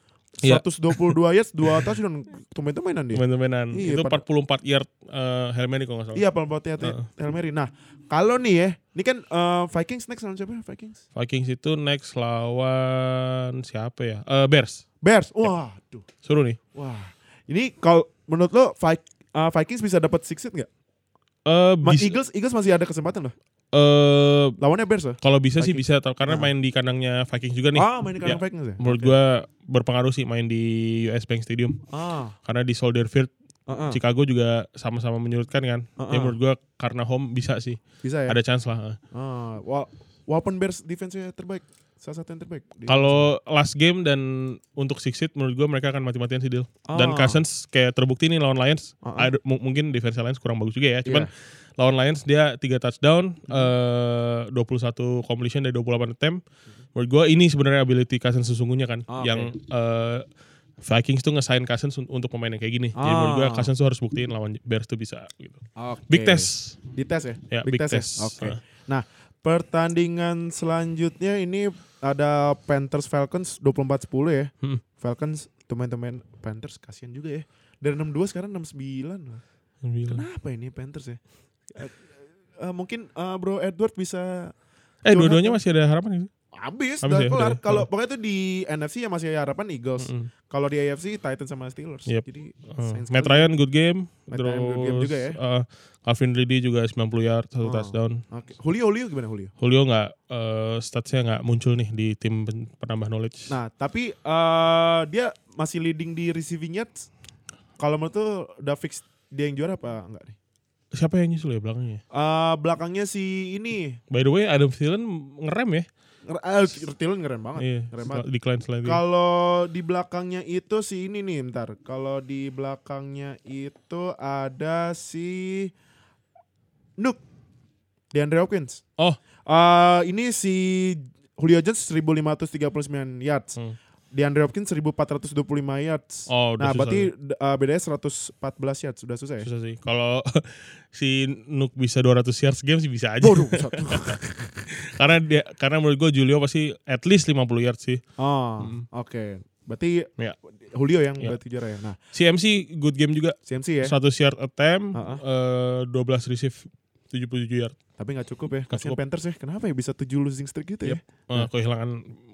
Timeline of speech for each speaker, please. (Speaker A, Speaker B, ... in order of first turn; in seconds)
Speaker A: 0.4-4.2, 6.1-11.0, 15.0-16.1, 16.7-20.7, 21.8-23.3, 24.6-26.5, 27.8-29.1, 31.9-32.4, 33.7-34.0, 36.0-36.4, 38.0-38.4, 39.1-43.3, 46.9-47.4, 49.0-49.3, 51.0-51.3, 59.1-59.5, 63.0-63.7, 65.8-79.4, 80.1-81.2, 81.7-82.0, 82.6-84.5, 85.1-85.6, 86.5-93.5, 94.3-95.4, 97.6-99.5, 103.5-107.1, 107.8-110.4, 112.1-114.0, 116.3-118.2, 118.8-125.7, 128.1-128.8, 129.5-133.6, 134.1-139.5, 143.2-144.7, 148.2-150.1, 150.6-152.0, 153.5-153.9, 154.9-155.2, 158.0-161.5
Speaker B: 0.4-1.1, 3.1-6.2, 11.1-14.8, 16.2-16.6, 21.4-22.1, 23.7-24.6, 25.2-31.8, 32.5-33.3, 33.9-39.0, 42.9-56.4, 57.0-60.2, 60.8-66.8, 67.5-68.6, 79.8-80.2, 85.0-86.3, 87.0-87.9, 90.0-90.3, 92.1-98.2, 99.6-103.5, 110.9-112.0, 114.1-115.9, 117.6-119.0, 136.3-137.1, 139.4-144.2, 144.8-148.0, 148.6-148.9, 152.1-157.8, 158.7-159.0, 160.8-162.2